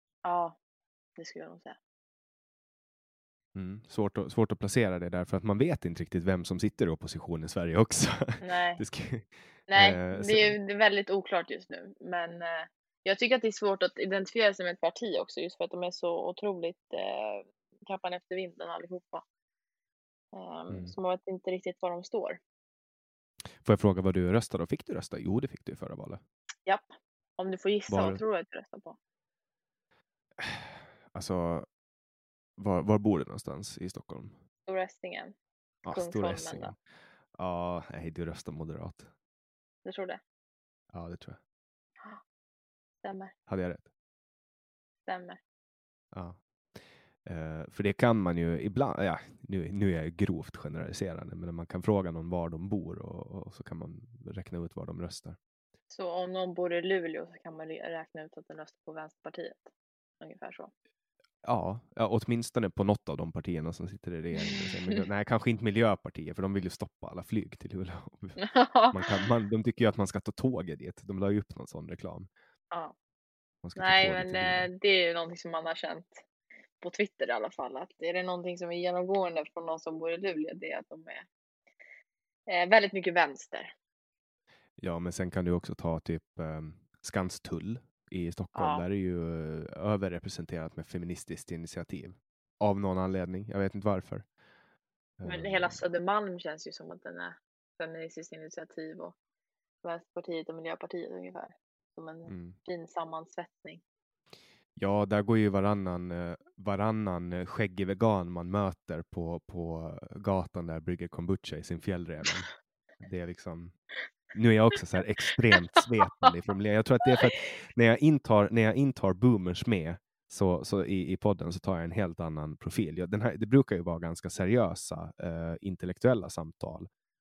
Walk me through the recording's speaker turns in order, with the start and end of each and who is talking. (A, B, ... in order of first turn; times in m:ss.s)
0:00.2-0:00.6 A
0:01.2-0:01.8 A
0:03.6-0:10.6 B
0:08.4-0:08.8 A
0:09.7-0:19.2 A
0:20.3-0:22.4 A
0:23.6-0:26.2 B
0:26.7-0:29.0 A
0:27.9-0:28.2 B
0:30.4-0:31.7 B
0:32.6-0:34.4 B
0:34.7-0:35.3 A
0:35.8-0:36.8 B
0:35.9-0:36.7 A
0:37.3-0:39.1 B
0:39.8-0:40.2 A
0:40.9-0:41.4 B
0:43.0-0:43.3 A
0:43.5-0:43.9 B
0:45.1-0:45.4 A
0:46.1-0:46.4 B
0:47.2-0:55.4 B
0:55.9-1:00.7 A
1:01.4-1:08.4 B
1:04.5-1:05.0 A
1:08.4-1:09.2 A
1:08.9-1:12.3 B
1:13.6-1:14.7 B
1:13.8-1:16.2 A
1:16.8-1:21.3 A
1:22.5-1:23.7 A
1:24.8-1:34.2 B
1:28.6-1:28.8 A
1:35.2-1:35.8 B
1:35.2-1:39.2 A
1:39.8-1:43.8 A
1:42.3-1:42.6 B
1:44.8-1:52.5 B
1:53.0-1:53.8 B
1:54.3-2:06.9 B